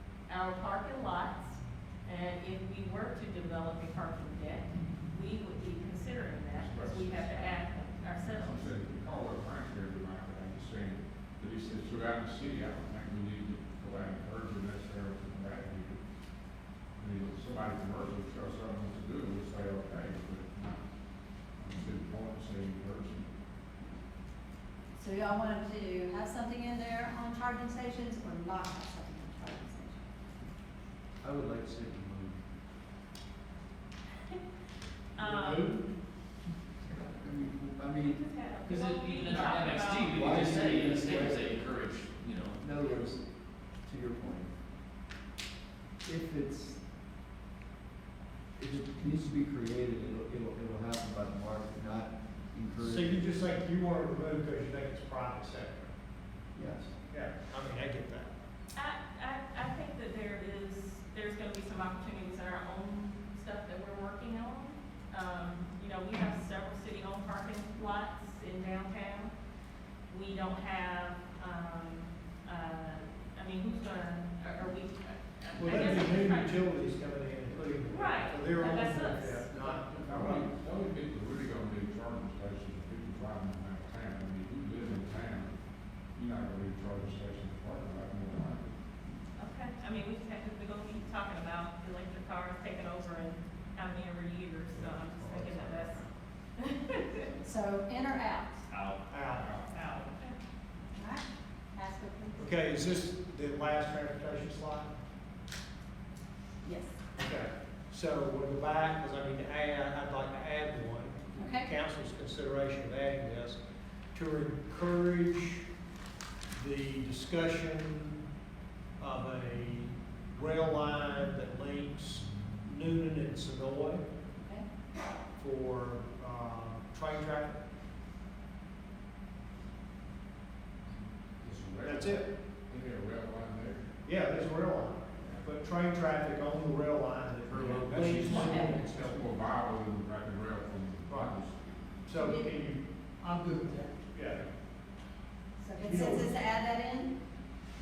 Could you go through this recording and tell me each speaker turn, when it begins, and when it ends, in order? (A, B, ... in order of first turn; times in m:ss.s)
0:00.3-0:08.8 A
0:06.5-0:07.6 B
0:08.2-0:16.0 B
0:17.0-0:20.8 B
0:21.6-0:23.3 B
0:25.0-0:30.0 C
0:31.2-0:32.4 D
0:35.2-0:35.8 A
0:35.2-0:35.8 D
0:37.0-0:38.2 D
0:38.0-0:41.1 A
0:38.6-0:42.6 E
0:40.0-0:41.5 D
0:42.6-0:43.2 D
0:43.8-0:44.5 D
0:46.0-0:46.8 D
0:48.6-0:53.2 D
0:52.8-0:55.9 F
0:56.6-0:56.9 D
0:57.1-0:58.3 F
0:58.7-1:09.3 A
1:10.1-1:16.6 A
1:15.6-1:20.5 F
1:17.9-1:19.7 A
1:20.0-1:25.5 B
1:26.2-1:28.7 B
1:29.4-1:36.1 A
1:34.8-1:35.8 F
1:36.6-1:37.3 A
1:37.4-1:38.6 C
1:38.7-1:39.0 E
1:39.1-1:39.5 F
1:39.3-1:39.7 B
1:39.7-1:40.4 A
1:41.0-1:42.4 C
1:42.4-1:45.0 F
1:46.6-1:47.0 C
1:47.2-1:53.6 F
1:51.4-1:51.7 C
1:54.1-1:55.7 F
1:56.5-1:58.2 F
1:59.0-2:04.0 F
2:04.4-2:04.6 C
2:05.4-2:07.6 F
2:11.4-2:13.9 B
2:11.8-2:12.3 F
2:14.0-2:19.2 F
2:18.1-2:21.6 B
2:21.1-2:21.4 F
2:22.0-2:22.8 F
2:22.2-2:22.5 C
2:24.0-2:24.4 F
2:25.6-2:27.1 C
2:25.8-2:26.3 F